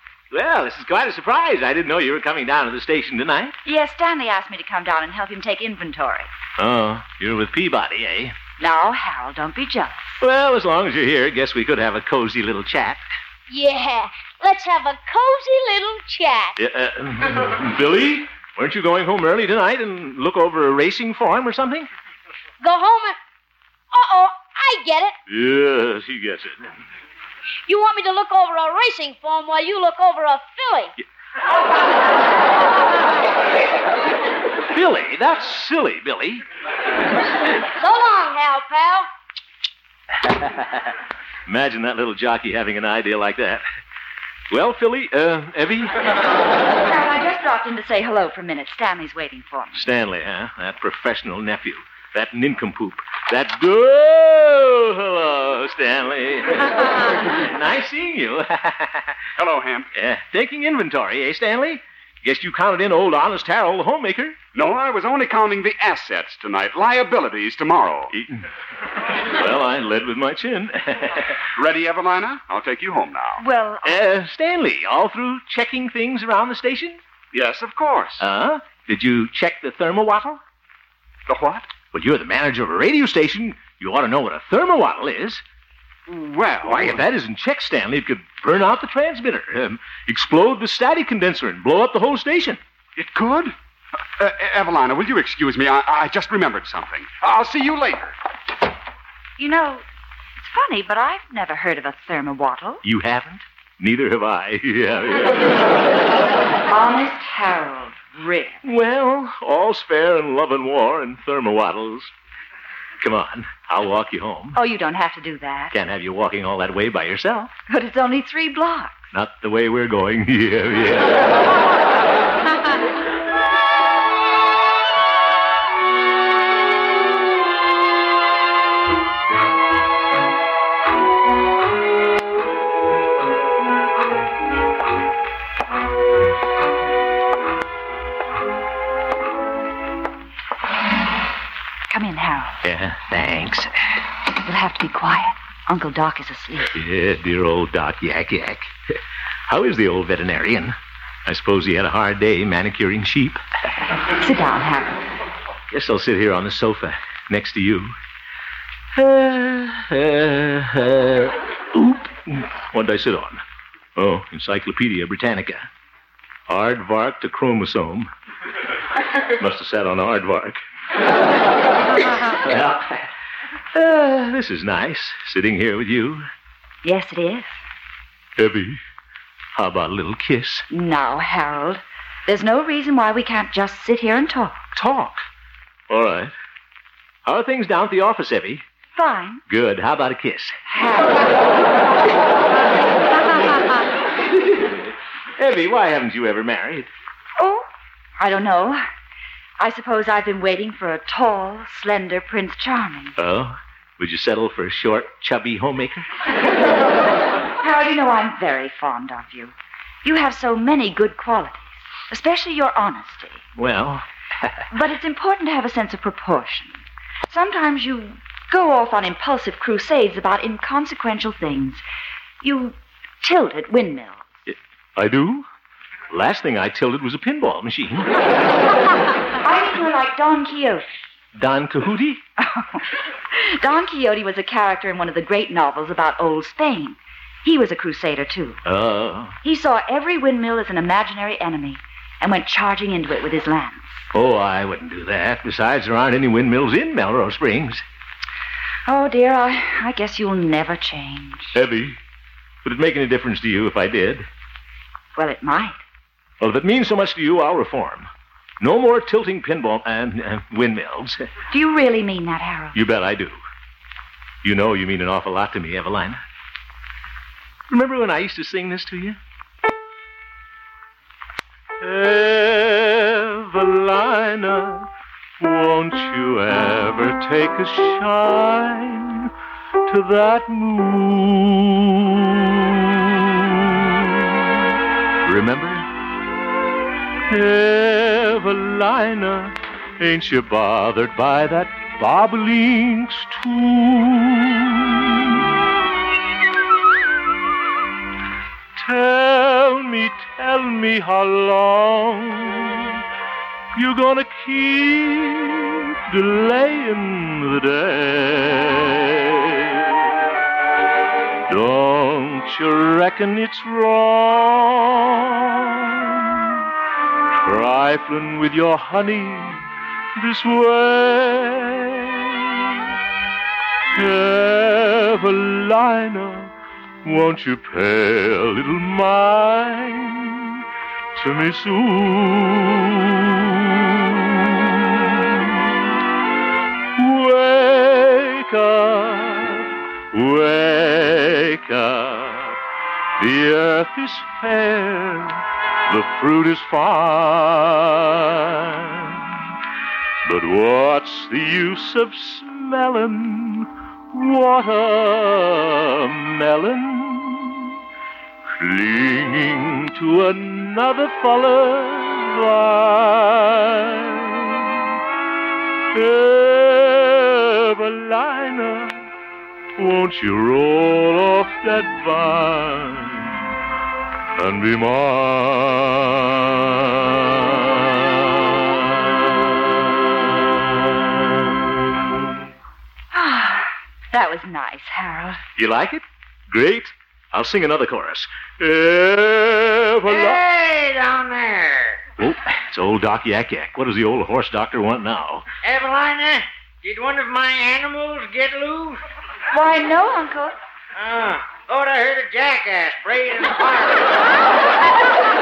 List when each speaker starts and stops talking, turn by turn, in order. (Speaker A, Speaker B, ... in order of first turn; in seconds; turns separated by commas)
Speaker A: 0.3-3.6, Speaker B: 3.6-6.3, Speaker A: 6.6-8.4, Speaker B: 8.6-10.1, Speaker A: 10.2-13.0, Speaker C: 13.5-16.5, Speaker A: 16.6-21.9, Speaker C: 22.6-23.2, Speaker C: 23.9-25.1, Speaker A: 25.3-26.8, Speaker C: 27.7-30.9, Speaker A: 34.7-36.4, Speaker C: 37.8-39.1, Speaker A: 41.5-43.6, Speaker A: 44.5-45.9, Speaker B: 46.8-49.8, Speaker A: 49.7-59.2, Speaker D: 59.4-59.9, Speaker A: 60.0-64.4, Speaker D: 64.5-68.1, Speaker A: 68.1-68.4, Speaker A: 69.3-71.3, Speaker D: 71.6-73.4, Speaker B: 73.4-73.9, Speaker A: 73.8-77.0, Speaker D: 77.3-78.2, Speaker A: 78.2-80.4, Speaker D: 81.3-81.7, Speaker A: 81.9-85.4, Speaker D: 86.1-87.0, Speaker A: 86.6-92.6, Speaker D: 93.0-93.5, Speaker D: 94.2-98.1, Speaker B: 99.4-99.8, Speaker B: 100.4-102.8, Speaker A: 102.8-105.6, Speaker B: 106.7-108.6, Speaker A: 108.6-112.1, Speaker A: 113.0-114.6, Speaker B: 114.5-115.7, Speaker A: 115.7-117.5, Speaker B: 117.7-119.1, Speaker A: 119.1-121.4, Speaker B: 141.9-142.6, Speaker A: 142.6-143.7, Speaker B: 144.4-146.7, Speaker A: 146.7-148.7, Speaker A: 149.5-153.4, Speaker B: 154.2-155.0, Speaker A: 155.7-157.9, Speaker A: 158.9-163.4, Speaker A: 164.0-165.7, Speaker A: 166.5-168.1, Speaker A: 169.4-170.6, Speaker A: 172.4-173.0, Speaker A: 173.7-176.3, Speaker B: 176.8-177.6, Speaker A: 178.4-178.8, Speaker A: 179.6-180.7, Speaker B: 180.7-184.7, Speaker A: 184.7-185.2, Speaker A: 185.9-186.3, Speaker A: 187.3-188.6, Speaker B: 189.0-189.4, Speaker A: 189.5-190.6, Speaker B: 190.7-191.3, Speaker A: 194.5-196.9, Speaker B: 197.4-197.7, Speaker B: 198.2-198.8, Speaker B: 199.6-203.2, Speaker A: 203.2-206.1, Speaker B: 207.6-209.5, Speaker B: 210.0-213.4, Speaker A: 213.6-214.6, Speaker B: 214.7-221.8, Speaker B: 222.4-224.3, Speaker A: 224.5-225.5, Speaker A: 226.1-228.1, Speaker B: 229.4-230.9, Speaker A: 231.3-232.2, Speaker B: 232.4-232.8, Speaker B: 233.4-238.6, Speaker A: 238.7-239.4, Speaker B: 239.4-244.1, Speaker A: 244.1-247.8, Speaker B: 248.9-251.6, Speaker A: 251.6-252.0, Speaker A: 252.6-254.3, Speaker B: 255.2-255.8, Speaker A: 256.4-258.1, Speaker A: 258.6-261.3, Speaker B: 261.5-262.8, Speaker A: 262.7-263.4, Speaker A: 264.4-266.2, Speaker A: 267.7-269.2, Speaker A: 271.8-274.9, Speaker A: 275.4-279.3, Speaker A: 279.9-282.4, Speaker A: 285.2-285.9, Speaker A: 287.3-294.9, Speaker A: 298.8-303.0, Speaker A: 303.8-309.4, Speaker A: 311.5-316.2, Speaker A: 317.4-322.4, Speaker A: 323.9-326.5, Speaker A: 327.0-330.6, Speaker A: 331.1-334.8, Speaker A: 337.0-342.6, Speaker A: 343.2-349.3, Speaker A: 350.2-357.7, Speaker A: 358.6-364.6, Speaker A: 365.9-369.1, Speaker A: 369.8-373.4, Speaker A: 374.4-377.8, Speaker A: 378.6-378.9, Speaker B: 383.1-385.4, Speaker A: 385.6-390.4, Speaker E: 390.1-392.1, Speaker A: 392.2-395.4, Speaker E: 395.6-399.0, Speaker B: 399.5-400.5, Speaker E: 401.0-404.2